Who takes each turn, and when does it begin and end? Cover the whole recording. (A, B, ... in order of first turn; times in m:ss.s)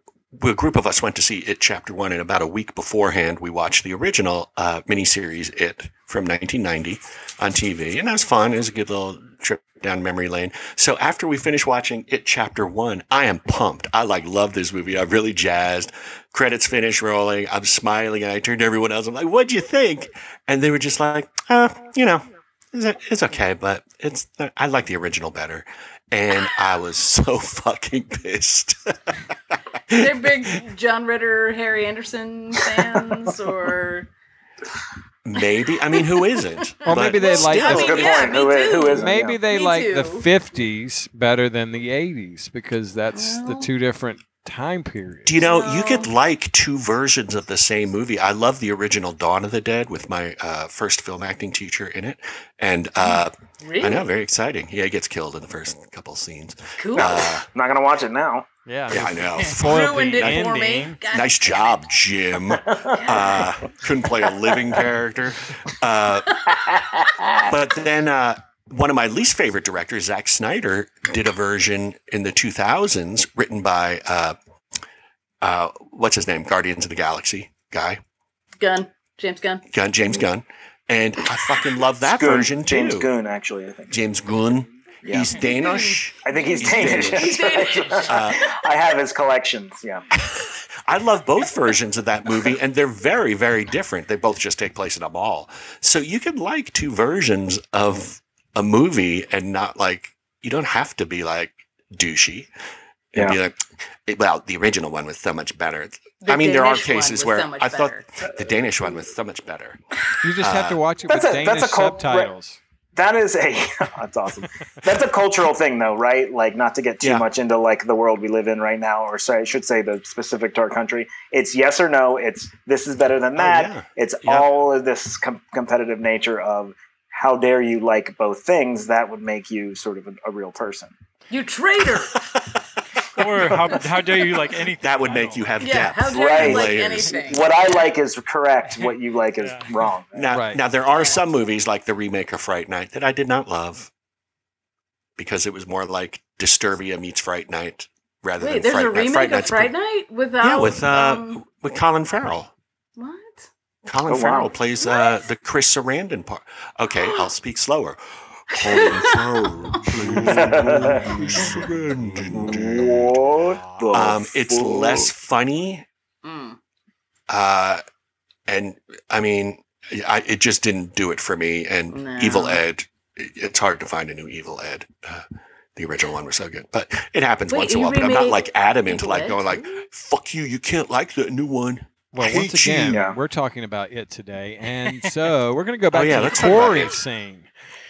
0:00.3-0:30.6 A
0:29.9-0:34.1 B
0:35.2-0:38.3 A
0:35.9-0:36.2 B
0:36.8-0:40.3 B
0:36.8-0:38.1 C
0:37.5-0:39.4 D
0:38.9-0:45.4 C
0:43.1-0:43.7 B
0:45.2-0:57.4 A
0:45.4-0:46.1 B
0:53.1-0:54.0 B
0:56.8-0:57.2 B
0:56.9-0:58.4 D
0:58.6-1:01.0 C
0:58.9-1:00.5 A
0:59.6-1:01.8 B
1:01.1-1:06.4 A
1:02.9-1:03.4 B
1:06.5-1:07.5 D
1:07.4-1:14.4 A
1:15.4-1:18.0 A
1:18.6-1:19.6 B
1:19.7-1:23.1 A
1:22.1-1:23.9 D
1:23.9-1:27.5 A
1:25.0-1:25.3 D
1:25.4-1:28.2 B
1:26.2-1:30.0 D
1:28.0-1:28.4 A
1:30.1-1:42.5 A
1:43.1-1:49.8 A
1:46.2-1:48.0 B
1:50.2-1:52.6 C
1:50.4-1:50.8 A
1:51.1-1:52.3 D
1:52.9-2:10.9 D
1:57.0-1:57.2 A
2:03.4-2:04.5 A
2:11.3-2:12.2 B
2:12.0-2:12.6 A
2:13.1-2:15.5 E
2:14.8-2:17.2 A
2:15.6-2:17.9 B
2:16.1-2:20.1 D
2:19.4-2:19.8 E
2:20.1-2:23.9 A
2:20.3-2:20.6 C
2:20.9-2:21.2 B
2:25.2-2:29.7 A
2:28.4-2:31.4 B
2:30.4-2:32.5 A
2:33.0-2:33.5 B
2:33.8-2:45.8 A
2:34.1-2:34.5 D
2:34.8-2:35.2 B
2:37.0-2:37.3 B
2:38.5-2:39.8 B
2:40.1-2:41.6 D
2:42.2-2:45.1 D
2:46.2-2:46.6 B
2:47.3-2:47.8 A
2:48.5-2:55.2 A
2:51.9-2:52.6 B
2:55.8-3:03.0 A
2:57.5-2:59.8 B
3:02.1-3:07.5 C
3:02.9-3:03.2 D
3:05.9-3:06.9 A